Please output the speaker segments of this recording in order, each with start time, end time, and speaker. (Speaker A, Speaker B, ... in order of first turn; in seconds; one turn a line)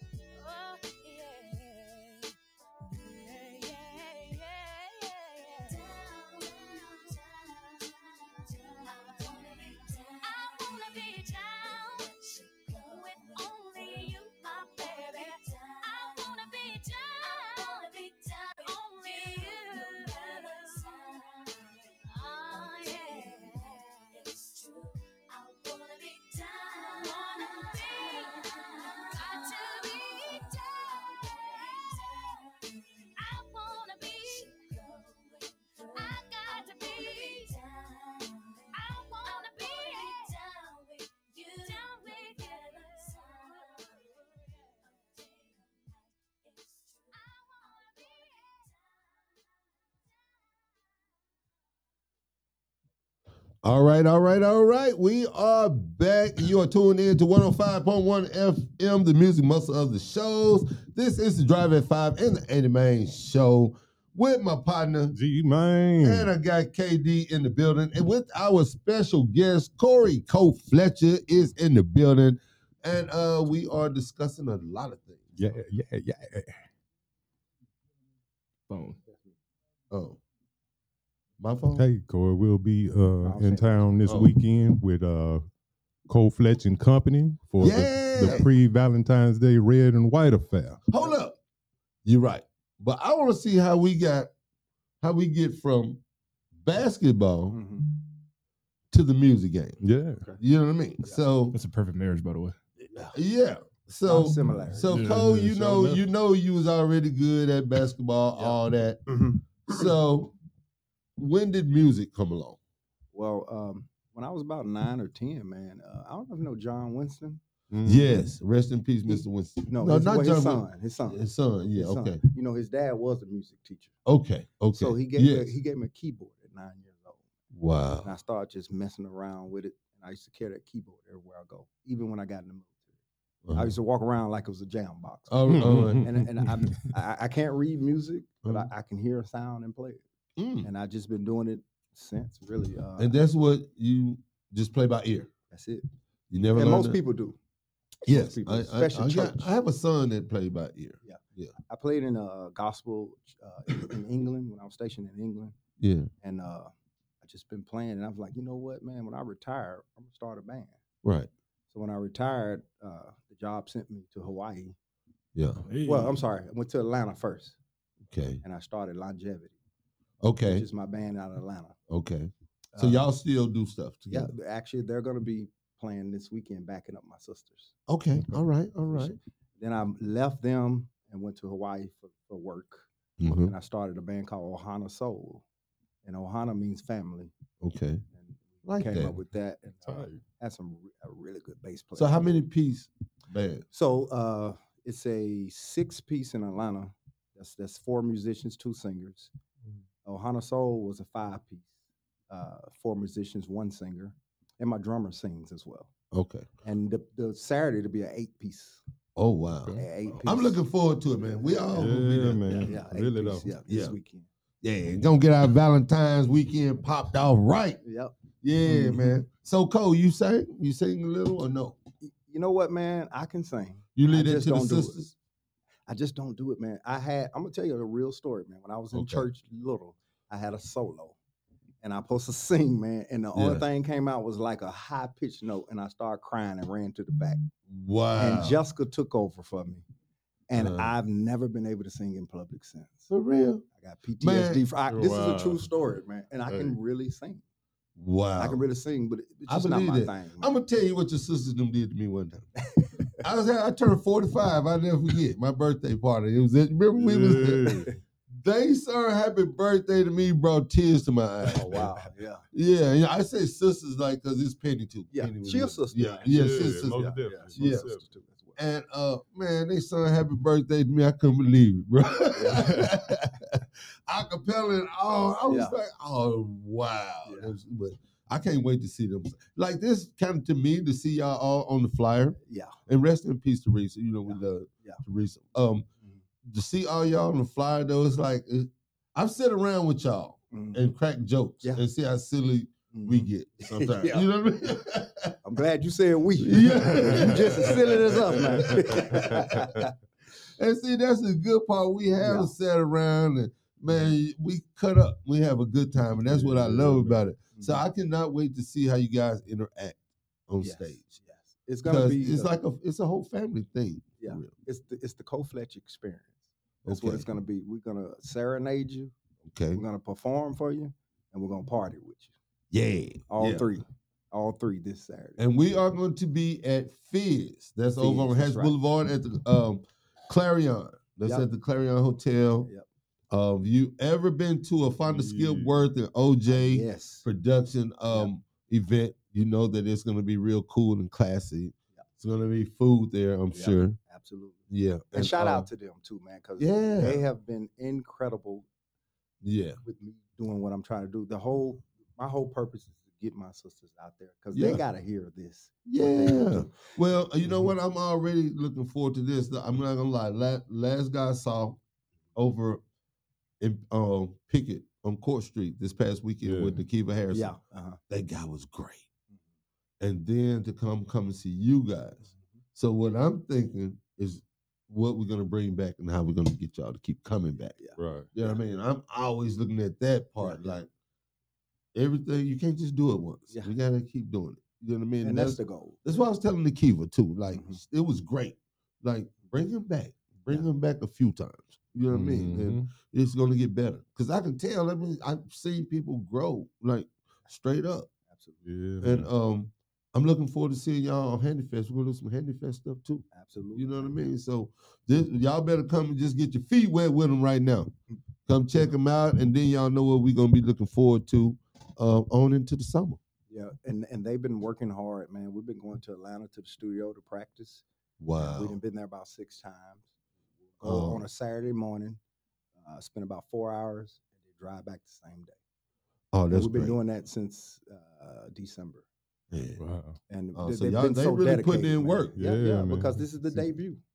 Speaker A: 0.3-49.4
Speaker B: 53.6-65.2
Speaker C: 65.1-66.3
Speaker B: 66.0-75.3
Speaker C: 75.4-76.5
Speaker D: 78.7-79.0
Speaker B: 79.9-80.2
Speaker B: 81.4-81.9
Speaker C: 81.8-85.4
Speaker E: 83.2-83.9
Speaker B: 84.1-84.3
Speaker C: 86.1-90.8
Speaker B: 87.6-88.5
Speaker B: 90.9-91.4
Speaker B: 92.0-94.3
Speaker B: 95.0-96.0
Speaker B: 96.6-97.6
Speaker E: 97.5-97.8
Speaker B: 98.9-99.8
Speaker C: 99.8-100.2
Speaker B: 100.4-101.6
Speaker D: 101.5-102.6
Speaker E: 102.9-103.2
Speaker B: 102.9-109.0
Speaker E: 104.0-104.9
Speaker C: 104.9-106.0
Speaker E: 108.4-109.4
Speaker B: 109.7-110.3
Speaker B: 111.2-112.6
Speaker E: 113.1-117.4
Speaker C: 117.7-118.1
Speaker B: 117.8-122.2
Speaker E: 119.1-121.2
Speaker E: 121.8-124.0
Speaker B: 124.1-125.5
Speaker E: 124.7-127.2
Speaker B: 127.5-128.1
Speaker E: 128.0-132.9
Speaker B: 133.4-133.8
Speaker E: 133.5-140.0
Speaker B: 135.3-136.2
Speaker C: 135.5-136.2
Speaker B: 140.4-140.7
Speaker E: 140.6-143.2
Speaker B: 143.0-145.3
Speaker E: 145.5-145.8
Speaker B: 146.3-147.0
Speaker E: 146.5-147.4
Speaker E: 148.0-149.5
Speaker B: 148.1-151.5
Speaker E: 151.0-155.6
Speaker B: 155.8-156.1
Speaker E: 156.2-160.8
Speaker B: 161.0-161.3
Speaker E: 161.7-164.8
Speaker B: 165.3-165.6
Speaker D: 165.7-166.2
Speaker E: 165.8-167.6
Speaker B: 168.1-168.4
Speaker E: 168.4-169.6
Speaker B: 170.2-170.7
Speaker E: 170.4-171.8
Speaker B: 171.9-174.3
Speaker E: 172.7-173.1
Speaker E: 174.1-177.7
Speaker B: 177.9-179.2
Speaker E: 178.9-185.4
Speaker B: 183.2-183.5
Speaker E: 186.1-187.3
Speaker B: 187.6-188.0
Speaker E: 188.2-192.3
Speaker B: 188.7-189.2
Speaker C: 189.8-190.2
Speaker B: 192.0-193.7
Speaker E: 193.7-199.3
Speaker E: 200.0-201.7
Speaker E: 202.3-205.9
Speaker B: 206.1-206.5
Speaker E: 206.6-208.8
Speaker B: 209.2-212.7
Speaker E: 209.7-210.6
Speaker C: 211.8-213.5
Speaker E: 212.5-214.3
Speaker B: 213.7-213.9
Speaker B: 214.6-217.8
Speaker E: 217.8-218.2
Speaker B: 218.4-221.8
Speaker E: 218.7-219.2
Speaker E: 222.0-225.0
Speaker B: 224.0-225.1
Speaker E: 225.9-231.2
Speaker B: 228.9-229.2
Speaker E: 231.8-237.5
Speaker B: 233.3-233.7
Speaker B: 237.7-238.6
Speaker E: 238.2-239.8
Speaker E: 240.5-243.1
Speaker B: 240.6-240.9
Speaker B: 243.1-243.7
Speaker E: 243.8-247.4
Speaker B: 244.2-244.6
Speaker C: 244.9-245.7
Speaker C: 246.5-246.8
Speaker B: 248.0-248.6
Speaker E: 248.4-250.5
Speaker B: 249.5-252.5
Speaker E: 252.8-253.1
Speaker B: 253.2-257.8
Speaker C: 257.0-257.9
Speaker B: 258.4-261.9
Speaker E: 261.5-262.5
Speaker B: 262.5-267.9
Speaker E: 265.1-268.6
Speaker C: 266.0-268.0
Speaker B: 268.6-285.9
Speaker E: 272.4-272.9
Speaker E: 275.5-275.8
Speaker E: 277.3-277.5
Speaker E: 282.5-282.8
Speaker E: 284.3-285.0
Speaker B: 286.5-295.4
Speaker E: 290.5-290.9
Speaker E: 292.9-294.3
Speaker E: 295.4-299.9
Speaker B: 296.4-299.4
Speaker C: 297.0-297.3
Speaker B: 300.6-311.1
Speaker E: 302.2-302.5
Speaker C: 306.2-307.2
Speaker E: 307.6-307.8
Speaker E: 310.6-312.5
Speaker B: 311.8-314.5
Speaker E: 314.2-319.1
Speaker B: 316.8-317.2
Speaker B: 319.5-319.8
Speaker E: 319.8-322.3
Speaker B: 322.7-323.7
Speaker E: 323.3-325.4
Speaker B: 325.4-332.7
Speaker E: 328.0-328.8
Speaker B: 333.3-344.0
Speaker C: 335.1-335.7
Speaker E: 336.5-337.2
Speaker E: 343.5-348.7
Speaker B: 344.7-345.7
Speaker B: 346.6-347.2
Speaker B: 349.4-349.8
Speaker E: 349.8-356.8
Speaker B: 354.5-354.8
Speaker B: 355.9-361.8
Speaker B: 362.4-362.8
Speaker B: 363.6-367.5
Speaker C: 366.4-366.8
Speaker E: 367.3-368.0
Speaker B: 368.1-369.1
Speaker B: 370.0-377.8
Speaker E: 377.8-378.6
Speaker C: 378.0-378.3
Speaker B: 378.3-380.9
Speaker E: 380.4-380.7
Speaker B: 381.9-398.1
Speaker E: 385.2-386.0
Speaker E: 387.5-387.8
Speaker C: 392.1-392.9
Speaker C: 398.7-399.3
Speaker B: 399.0-407.9
Speaker E: 403.3-404.1
Speaker B: 408.5-413.2
Speaker E: 413.5-417.9
Speaker B: 418.2-418.8
Speaker E: 418.4-420.1
Speaker E: 420.7-422.2
Speaker B: 420.8-421.2
Speaker E: 422.8-425.6
Speaker B: 426.3-427.0
Speaker E: 426.5-429.1
Speaker B: 429.5-429.8
Speaker C: 429.8-430.2
Speaker E: 430.3-434.0
Speaker B: 430.6-432.4
Speaker C: 432.4-433.6